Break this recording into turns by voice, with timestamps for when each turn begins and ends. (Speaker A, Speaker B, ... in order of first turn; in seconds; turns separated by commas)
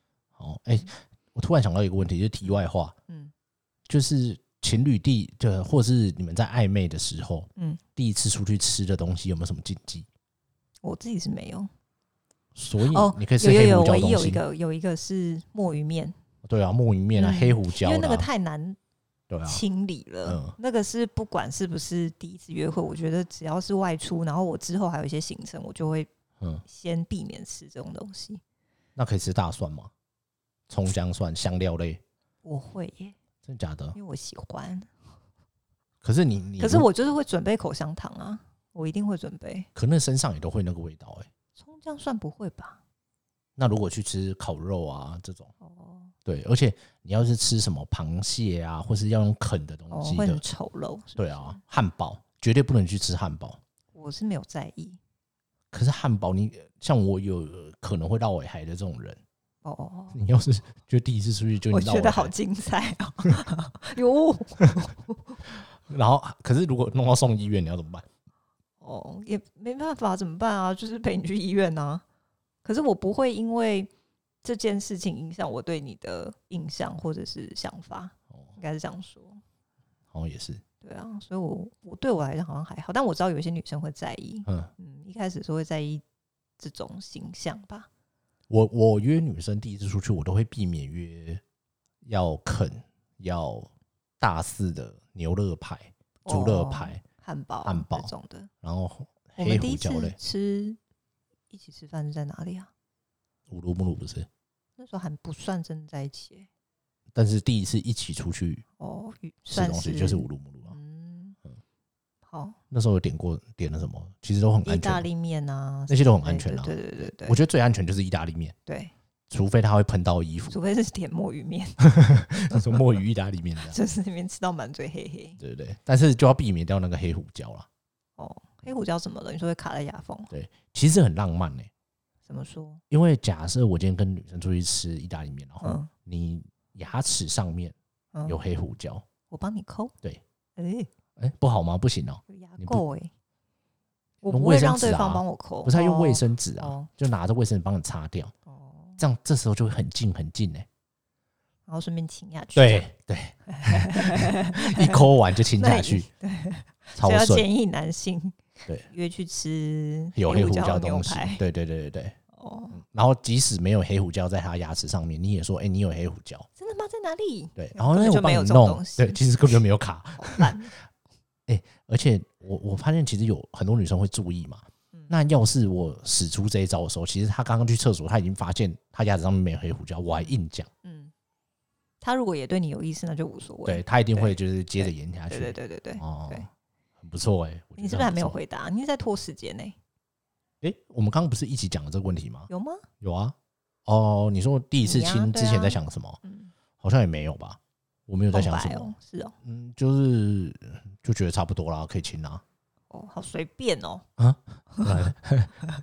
Speaker A: 0.4-2.9, Speaker B: 3.1-3.3, Speaker A: 3.9-10.1, Speaker B: 10.8-11.7, Speaker A: 12.5-14.4, Speaker B: 12.8-16.2, Speaker A: 16.4-18.3, Speaker B: 17.1-18.8, Speaker A: 19.3-19.6, Speaker B: 19.4-26.1, Speaker A: 20.2-20.6, Speaker B: 26.6-28.4, Speaker A: 28.9-29.9, Speaker A: 30.7-32.0, Speaker B: 32.4-33.1, Speaker A: 33.4-34.0, Speaker B: 33.9-34.9, Speaker A: 36.0-36.9, Speaker B: 36.6-39.7, Speaker A: 39.7-41.3, Speaker B: 41.5-42.8, Speaker A: 43.6-45.5, Speaker B: 45.6-46.1, Speaker A: 46.2-50.4, Speaker B: 49.9-51.6, Speaker A: 51.2-53.6, Speaker B: 53.9-55.0, Speaker A: 55.7-59.2, Speaker B: 59.6-60.2, Speaker A: 60.1-62.3, Speaker B: 61.7-65.4, Speaker A: 65.5-68.0, Speaker B: 68.8-72.0, Speaker B: 72.6-73.9, Speaker B: 74.4-79.4, Speaker A: 80.1-80.6, Speaker B: 80.8-86.0, Speaker A: 84.5-84.7, Speaker B: 86.6-87.9, Speaker A: 88.5-91.4, Speaker A: 92.0-97.0, Speaker B: 96.2-98.5, Speaker A: 97.6-98.1, Speaker A: 98.6-100.2, Speaker B: 99.4-100.8, Speaker B: 101.5-102.7, Speaker A: 103.5-104.3, Speaker B: 104.8-106.5, Speaker A: 107.1-108.6, Speaker B: 108.8-111.4, Speaker A: 109.5-110.8, Speaker B: 112.3-112.6, Speaker A: 112.7-115.1, Speaker B: 114.6-117.4, Speaker A: 115.9-118.5, Speaker B: 118.7-118.9, Speaker A: 119.3-120.5, Speaker B: 120.5-122.8, Speaker A: 121.8-123.8, Speaker B: 123.6-125.4, Speaker A: 125.4-127.7, Speaker B: 128.2-130.3, Speaker A: 130.3-131.7, Speaker B: 132.2-132.8, Speaker A: 132.9-137.7, Speaker B: 135.6-135.9, Speaker A: 138.2-139.1, Speaker B: 139.3-139.9, Speaker B: 140.6-140.9, Speaker A: 141.2-142.8, Speaker B: 142.3-143.1, Speaker B: 144.2-146.9, Speaker A: 144.3-148.3, Speaker B: 148.5-149.0, Speaker A: 149.0-150.7, Speaker B: 151.7-152.9, Speaker A: 152.5-156.1, Speaker B: 153.5-161.4, Speaker A: 156.9-157.5, Speaker A: 160.1-162.2, Speaker B: 162.3-162.8, Speaker A: 162.7-166.5, Speaker B: 166.6-169.5, Speaker A: 167.6-170.7, Speaker B: 170.2-170.7, Speaker A: 171.5-180.7, Speaker B: 180.1-181.1, Speaker B: 182.0-186.5, Speaker A: 183.7-186.5, Speaker A: 187.0-188.4, Speaker B: 187.8-189.8, Speaker A: 190.6-192.5, Speaker B: 192.5-192.8, Speaker A: 193.0-193.3, Speaker A: 193.8-196.2, Speaker B: 194.8-196.5, Speaker A: 196.8-202.4, Speaker B: 198.3-199.3, Speaker B: 202.9-204.1, Speaker A: 204.2-205.6